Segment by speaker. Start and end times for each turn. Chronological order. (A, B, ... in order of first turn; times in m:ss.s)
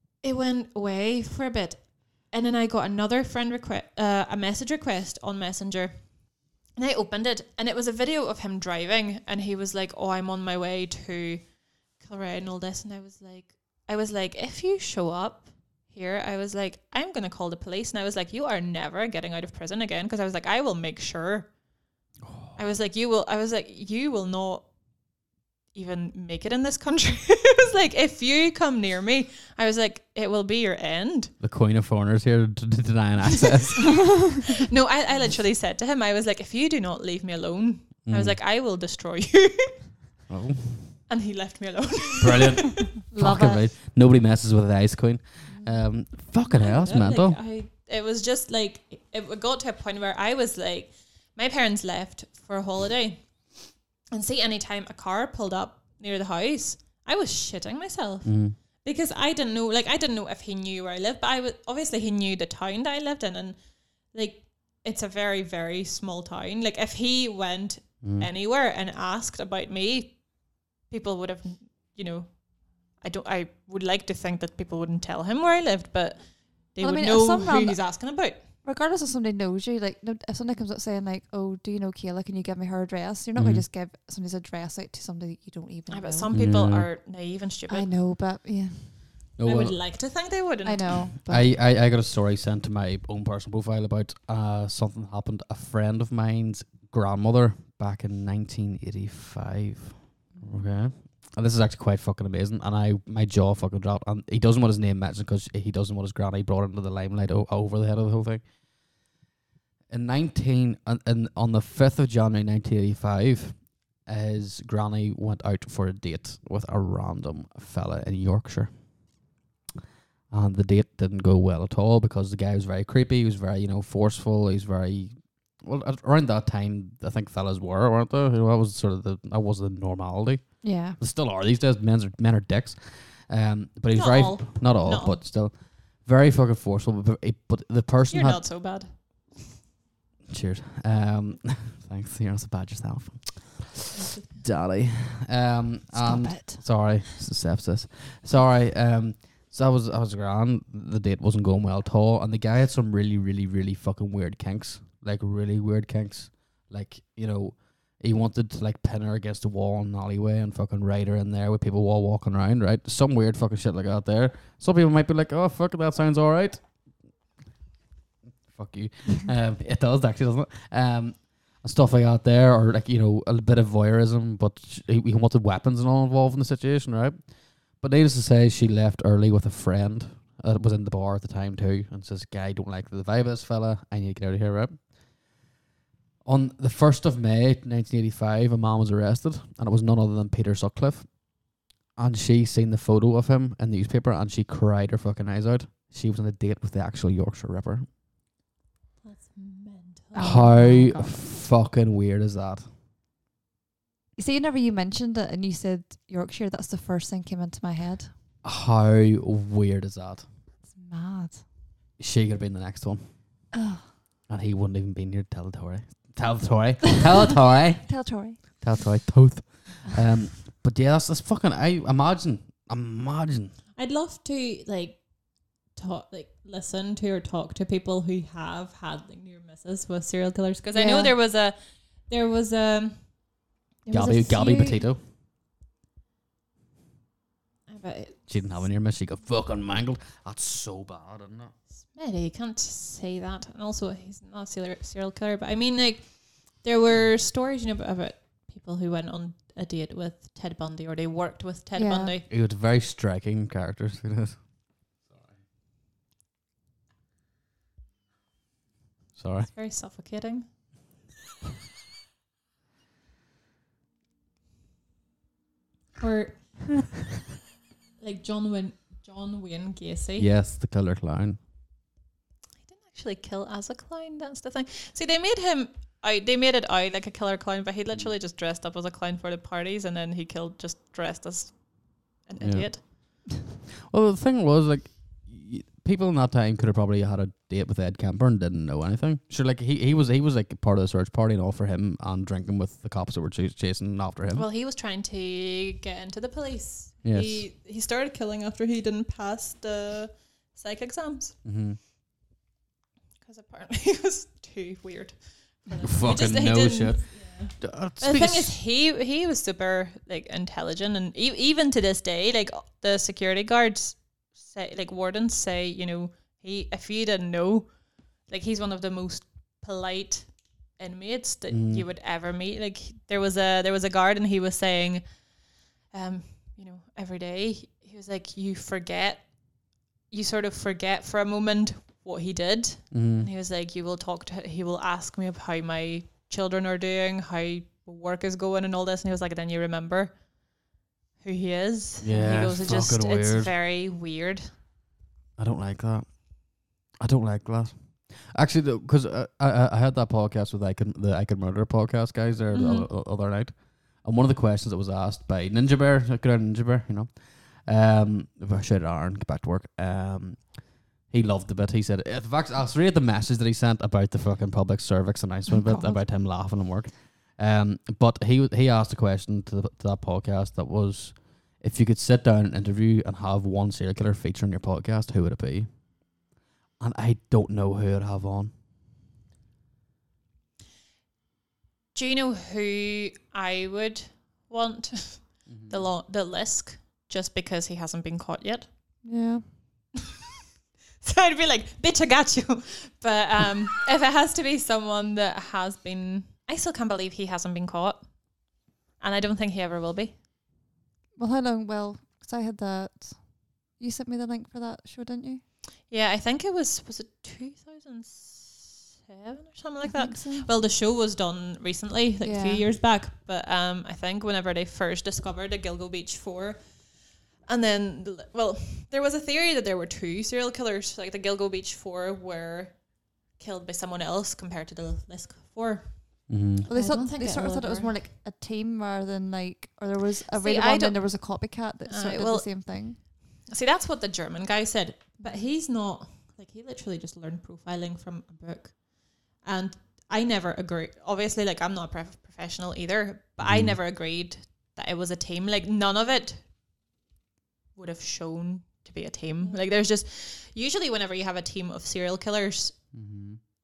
0:00.2-0:11.5 A
0:12.0-0:21.5 A
0:22.2-0:22.6 B
0:22.6-0:24.7 A
0:25.7-0:31.3 A
0:31.4-0:34.2 B
0:33.4-0:40.0 A
0:38.1-0:38.4 B
0:40.3-0:41.0 B
0:41.1-0:42.9 A
0:42.2-0:47.4 B
0:43.1-0:43.6 C
0:45.5-0:45.8 C
0:46.4-1:03.6 A
0:58.2-0:58.6 B
1:04.1-1:18.5 A
1:08.0-1:08.3 B
1:16.8-1:17.9 C
1:18.6-1:26.3 C
1:23.4-1:23.6 B
1:25.9-1:27.9 A
1:26.3-1:26.9 B
1:27.7-1:29.0 C
1:29.4-1:29.8 B
1:29.4-1:31.1 A
1:30.6-1:31.6 C
1:31.2-1:48.4 B
1:49.9-1:58.8 B
2:00.3-2:18.5 B
2:10.6-2:11.0 C
2:13.9-2:15.2 A
2:18.1-2:19.4 A
2:20.3-2:46.6 B
2:23.9-2:24.4 A
2:25.9-2:26.7 C
2:48.5-3:04.9 B
3:06.2-3:11.4 B
3:12.0-3:17.9 B
3:19.0-3:20.5 A
3:20.2-3:21.2 C
3:20.2-3:22.7 B
3:24.2-3:28.1 C
3:28.4-3:30.2 B
3:30.7-3:31.4 C
3:32.0-3:33.0 B
3:33.5-3:33.9 C
3:34.3-3:38.0 B
3:37.8-3:38.4 C
3:38.5-3:43.6 B
3:43.8-3:51.6 A
3:50.8-3:51.1 C
3:52.1-3:53.1 A
3:53.9-3:54.8 C
3:53.9-3:55.0 B
3:57.7-3:58.6 A
3:58.3-4:01.5 B
4:01.9-4:12.3 A
4:11.8-4:12.1 C
4:12.3-4:14.4 B
4:19.2-4:19.5 B
4:19.5-4:20.5 A
4:26.0-4:27.0 A
4:28.0-4:30.3 A
4:30.2-4:31.4 B
4:32.7-4:42.8 A
4:42.4-4:43.2 B
4:43.9-4:54.5 B
4:54.4-5:01.4 A
4:57.0-4:57.4 B
5:01.4-5:01.8 B
5:03.2-5:25.2 A
5:05.8-5:08.5 B
5:21.5-5:21.9 B
5:25.9-5:40.2 A
5:32.9-5:33.3 B
5:41.2-5:44.5 A
5:42.0-5:43.5 B
5:45.4-6:15.7 B
5:52.5-5:52.9 A
6:05.5-6:06.0 C
6:16.8-6:18.5 B
6:22.0-6:28.7 A
6:25.5-6:25.8 B
6:29.0-6:29.4 C
6:31.0-6:38.1 A
6:39.0-6:40.2 A
6:41.2-6:45.4 C
6:45.9-7:07.9 A
6:49.8-6:50.5 C
6:52.2-6:52.6 C
7:06.3-7:06.7 B
7:06.7-7:13.0 C
7:10.3-7:11.0 A
7:11.9-7:26.4 A
7:23.4-7:23.8 B
7:27.8-7:32.8 A
7:32.9-7:33.4 B